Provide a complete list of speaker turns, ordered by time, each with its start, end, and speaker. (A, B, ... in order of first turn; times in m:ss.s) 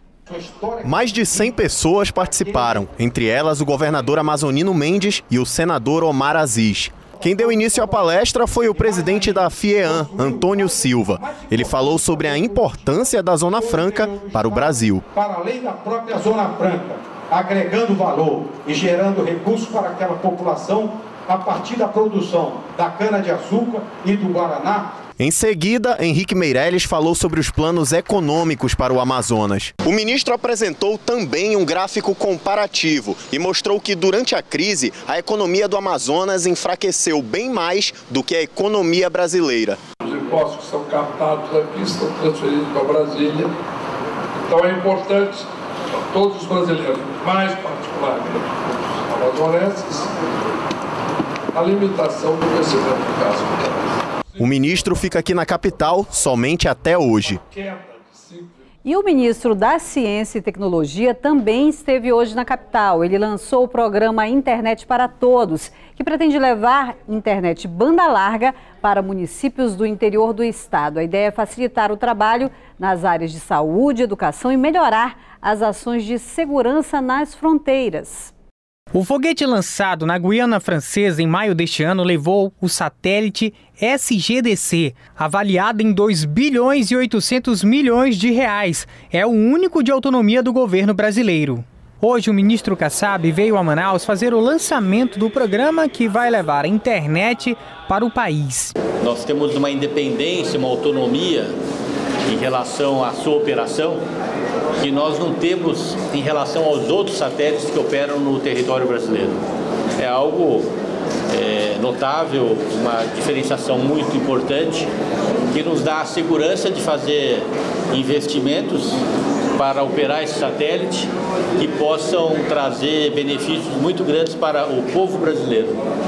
0:00.3-0:01.5 A
0:00.8-0:15.0 B
0:02.5-0:02.8 A
0:07.2-0:08.1 A
0:08.7-0:12.9 A
0:13.6-0:24.9 A
0:25.2-0:39.8 B
0:40.0-0:43.5 C
0:44.5-0:45.4 C
0:46.1-0:50.1 C
0:51.5-0:53.9 C
0:54.4-0:57.4 B
0:57.5-0:58.5 C
0:58.8-1:18.3 D
1:18.9-1:38.7 E
1:39.0-1:41.5 F
1:42.3-1:44.0 F
1:44.8-1:49.4 F
1:50.0-1:50.7 F
1:51.3-1:54.9 F
1:55.5-1:59.0 F
1:59.5-2:05.8 F